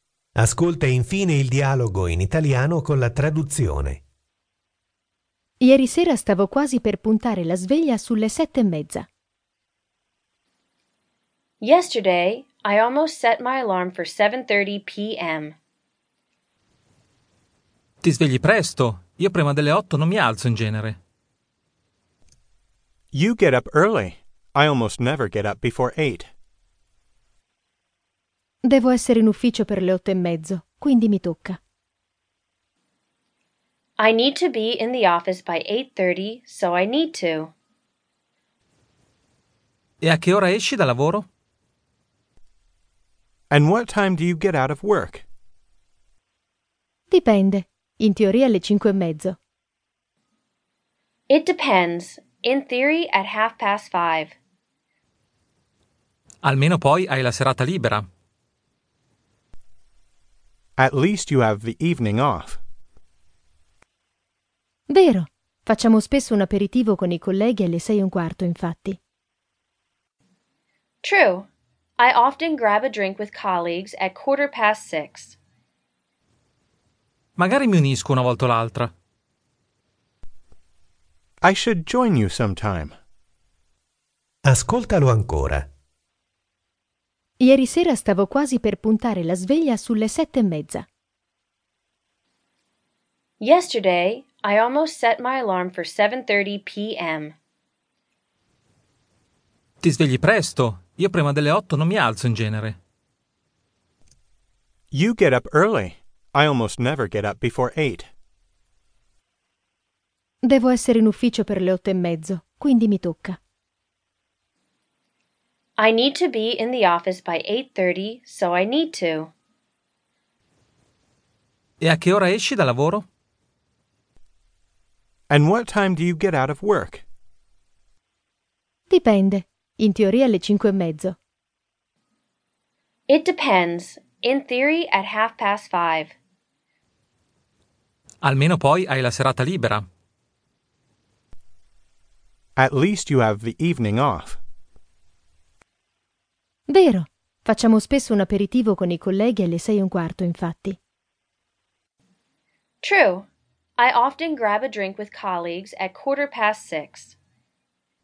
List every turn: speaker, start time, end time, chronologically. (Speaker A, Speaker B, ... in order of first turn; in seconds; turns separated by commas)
Speaker A: 0.3-4.0, Speaker B: 5.6-9.1, Speaker C: 11.6-15.5, Speaker D: 18.0-21.0, Speaker E: 23.1-26.3, Speaker B: 28.6-31.6, Speaker C: 34.0-37.5, Speaker D: 40.0-41.3, Speaker E: 43.5-45.2, Speaker B: 47.1-49.4, Speaker C: 51.3-54.3, Speaker D: 56.4-58.0, Speaker E: 60.8-62.6, Speaker B: 64.9-69.0, Speaker C: 71.0-75.4, Speaker D: 77.4-78.9, Speaker E: 81.4-82.9, Speaker A: 84.5-85.7, Speaker B: 87.4-90.8, Speaker C: 93.4-97.3, Speaker D: 99.8-102.8, Speaker E: 104.9-108.1, Speaker B: 110.4-113.4, Speaker C: 115.8-119.3, Speaker D: 121.8-123.1, Speaker E: 125.3-127.0, Speaker B: 128.9-131.2, Speaker C: 133.1-136.1, Speaker D: 138.2-139.8, Speaker E: 142.6-144.4, Speaker B: 146.7-150.8, Speaker C: 152.8-157.2